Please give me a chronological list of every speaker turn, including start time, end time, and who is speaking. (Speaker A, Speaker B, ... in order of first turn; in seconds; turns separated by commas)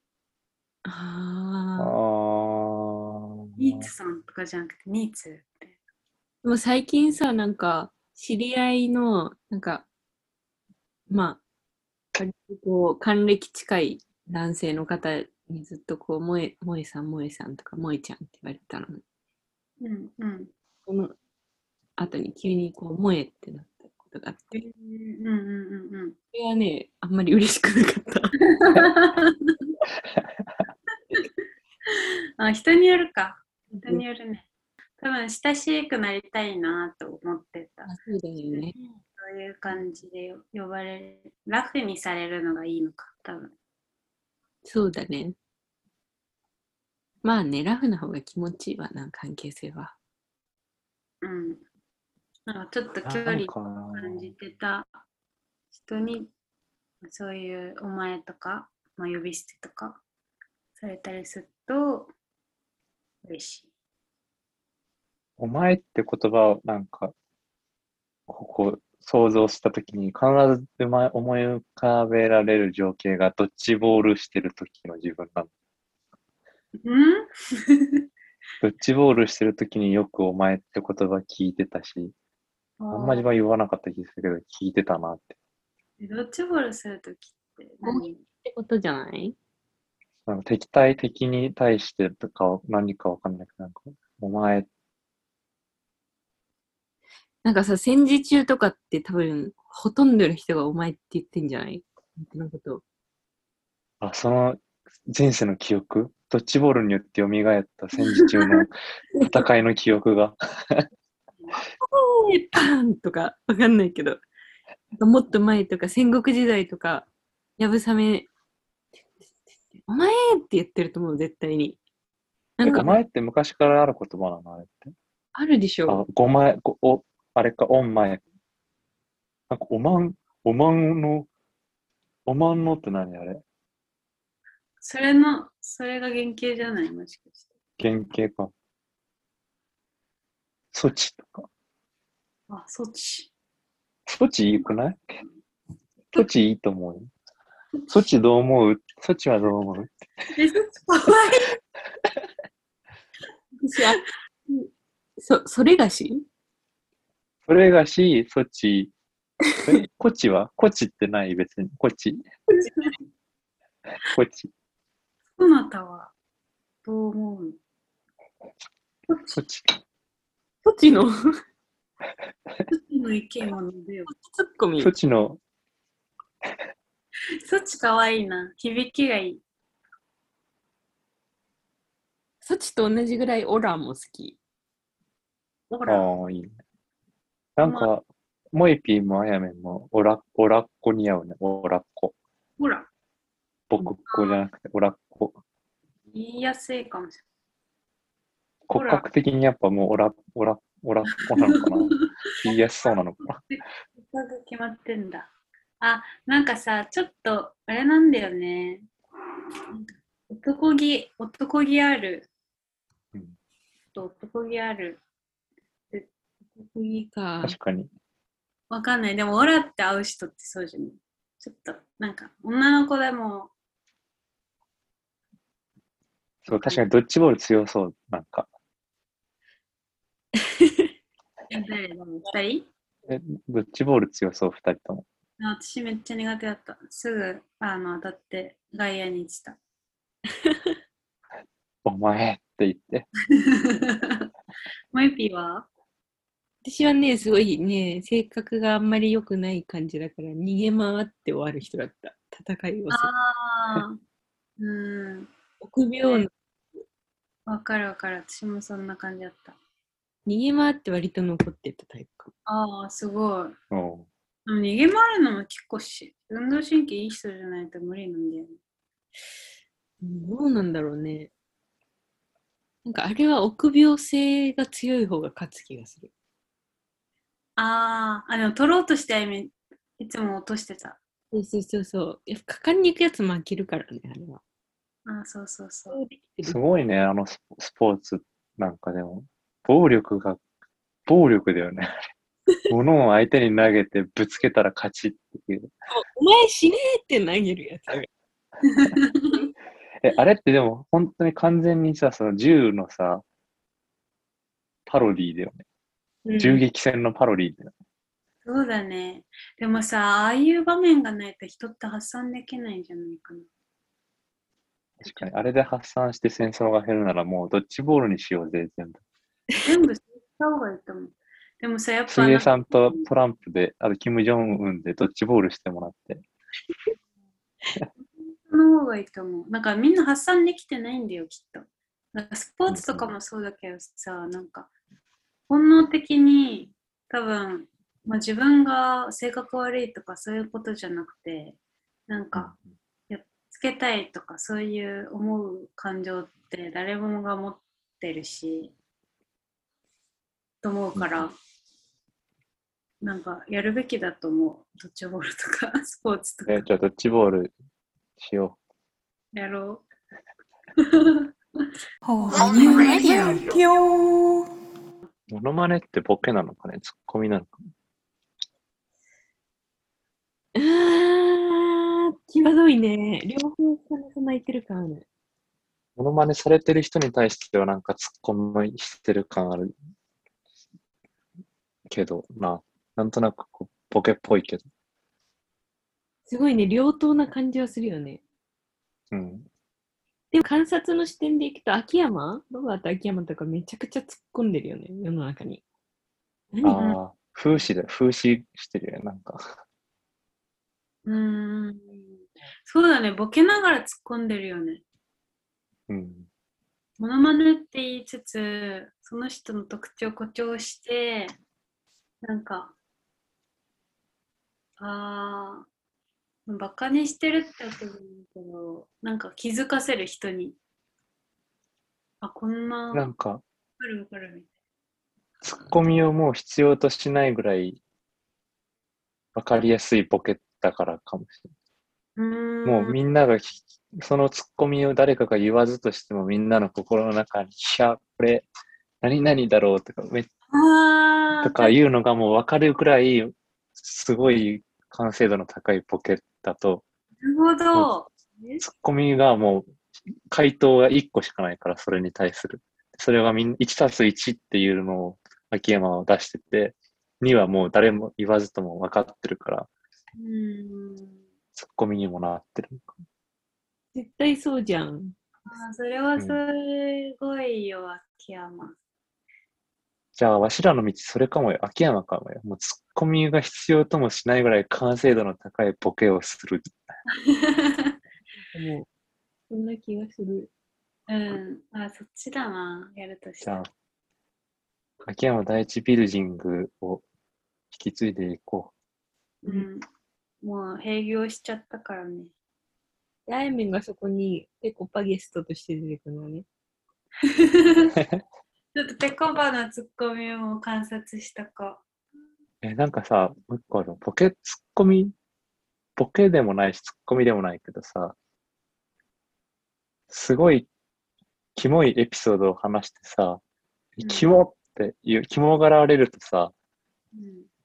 Speaker A: 0.8-2.0, Speaker B: 1.8-3.9, Speaker C: 3.6-5.8, Speaker A: 6.4-9.9, Speaker A: 11.1-11.4, Speaker A: 12.2-19.0, Speaker C: 19.8-20.5, Speaker A: 20.9-21.1, Speaker A: 22.0-24.5, Speaker C: 24.5-26.2, Speaker A: 26.3-28.4, Speaker C: 28.5-29.6, Speaker C: 32.4-34.5, Speaker A: 33.7-34.0, Speaker C: 35.0-37.9, Speaker A: 37.9-38.8, Speaker C: 39.2-43.5, Speaker A: 44.6-45.4, Speaker A: 47.2-50.0, Speaker C: 51.2-51.6, Speaker C: 52.5-55.0, Speaker B: 53.0-54.3, Speaker C: 55.7-56.3, Speaker C: 57.0-60.0, Speaker C: 60.8-62.1, Speaker C: 63.2-63.7, Speaker B: 65.4-67.1, Speaker B: 68.3-75.5, Speaker C: 76.8-78.0, Speaker B: 78.6-82.1, Speaker C: 82.8-83.3, Speaker B: 82.9-85.4, Speaker C: 86.0-88.2, Speaker A: 87.8-89.3, Speaker B: 90.3-94.7, Speaker A: 97.4-102.8, Speaker B: 104.0-110.8, Speaker A: 111.8-114.2, Speaker A: 115.0-118.3, Speaker A: 119.2-121.8, Speaker A: 122.6-123.0, Speaker B: 122.6-124.9, Speaker A: 125.3-126.0, Speaker B: 125.9-128.2, Speaker B: 129.5-131.3, Speaker B: 132.3-133.4, Speaker C: 134.8-137.5, Speaker B: 137.8-138.5, Speaker B: 140.7-141.5, Speaker C: 142.5-143.3, Speaker B: 144.1-145.2, Speaker B: 146.1-147.1, Speaker B: 147.9-149.9, Speaker C: 150.3-151.6, Speaker A: 153.6-156.2, Speaker B: 157.5-158.9, Speaker B: 159.7-162.2, Speaker B: 164.1-164.5, Speaker C: 165.4-166.1, Speaker C: 166.8-167.6, Speaker C: 169.1-169.4, Speaker B: 169.4-169.8, Speaker A: 170.7-171.2, Speaker C: 172.7-174.1, Speaker A: 174.1-174.9, Speaker B: 174.8-175.4, Speaker C: 177.4-179.4, Speaker A: 182.4-184.4, Speaker C: 185.7-186.1, Speaker B: 185.9-186.5, Speaker B: 187.6-192.2, Speaker C: 187.6-187.9, Speaker C: 192.6-192.9, Speaker B: 193.7-195.4, Speaker C: 194.1-194.4, Speaker C: 196.1-197.2, Speaker B: 198.7-203.4, Speaker C: 198.7-199.0, Speaker C: 201.5-201.9, Speaker C: 203.5-205.3, Speaker C: 205.8-208.9, Speaker C: 209.7-212.3, Speaker C: 213.9-215.0, Speaker A: 216.6-217.6, Speaker B: 217.4-217.9, Speaker C: 218.7-223.5, Speaker B: 226.5-228.5, Speaker C: 226.5-226.8, Speaker A: 230.4-230.9, Speaker C: 231.5-232.7, Speaker B: 233.1-235.1, Speaker C: 235.4-239.6, Speaker A: 240.4-240.8, Speaker B: 241.8-243.1, Speaker C: 243.4-244.3, Speaker C: 244.9-245.7, Speaker A: 246.6-253.1, Speaker C: 252.9-254.0, Speaker C: 254.6-255.3, Speaker A: 255.6-256.3, Speaker C: 257.5-259.6, Speaker A: 260.3-262.3, Speaker C: 262.5-263.6, Speaker B: 263.7-264.1, Speaker C: 264.5-268.5, Speaker A: 270.0-271.3, Speaker A: 272.9-276.1, Speaker C: 277.6-281.0, Speaker A: 281.3-284.4, Speaker C: 285.1-286.0, Speaker A: 285.9-286.6, Speaker B: 286.4-290.4, Speaker B: 291.1-291.9, Speaker B: 292.7-295.7, Speaker A: 295.9-298.1, Speaker C: 298.7-299.4, Speaker B: 300.0-303.2, Speaker B: 304.9-305.6, Speaker A: 306.2-306.6, Speaker B: 306.4-307.7, Speaker C: 308.4-313.5, Speaker B: 315.0-319.0, Speaker C: 319.6-323.0, Speaker B: 322.1-326.2, Speaker C: 328.5-334.7, Speaker B: 332.7-333.1, Speaker C: 335.5-341.6, Speaker C: 342.1-342.5, Speaker B: 342.3-342.6, Speaker C: 343.1-348.7, Speaker C: 350.6-351.3, Speaker B: 350.9-351.3, Speaker C: 353.0-356.7, Speaker B: 356.5-357.5, Speaker B: 358.2-358.6, Speaker C: 359.3-359.8, Speaker C: 360.9-361.2, Speaker D: 362.1-364.5, Speaker A: 362.3-363.4, Speaker B: 365.3-367.6, Speaker A: 370.6-375.1, Speaker B: 376.0-379.8, Speaker B: 381.9-384.7, Speaker A: 386.3-388.2, Speaker B: 389.1-389.5, Speaker A: 390.3-395.6, Speaker A: 396.5-396.8, Speaker B: 396.6-399.4, Speaker C: 401.1-404.8, Speaker B: 405.9-406.3, Speaker C: 407.0-411.3, Speaker C: 412.2-412.7, Speaker C: 414.8-415.7, Speaker C: 416.5-420.6, Speaker C: 422.2-423.1, Speaker B: 422.9-423.4, Speaker C: 423.8-424.5, Speaker B: 425.4-427.8, Speaker B: 429.4-431.5, Speaker C: 432.2-433.0, Speaker B: 432.6-438.5, Speaker B: 439.0-440.3, Speaker C: 440.5-441.8, Speaker B: 441.4-446.8, Speaker C: 447.2-448.1, Speaker B: 448.6-449.7, Speaker B: 450.3-459.7, Speaker C: 460.2-461.2, Speaker B: 461.6-463.0, Speaker A: 463.9-465.1, Speaker C: 465.5-468.8, Speaker B: 470.1-476.8, Speaker C: 477.3-477.9, Speaker A: 478.4-478.9, Speaker A: 479.5-480.5, Speaker C: 481.1-483.6, Speaker B: 483.4-483.7, Speaker B: 485.1-487.0, Speaker B: 487.7-488.7, Speaker C: 489.4-489.9, Speaker C: 490.4-492.3, Speaker A: 493.3-496.4, Speaker C: 497.2-498.0, Speaker C: 498.8-501.8, Speaker B: 502.6-505.1, Speaker B: 506.0-508.1, Speaker B: 510.1-510.7, Speaker B: 511.6-513.4, Speaker B: 514.0-516.5, Speaker C: 514.0-514.3, Speaker C: 517.1-517.5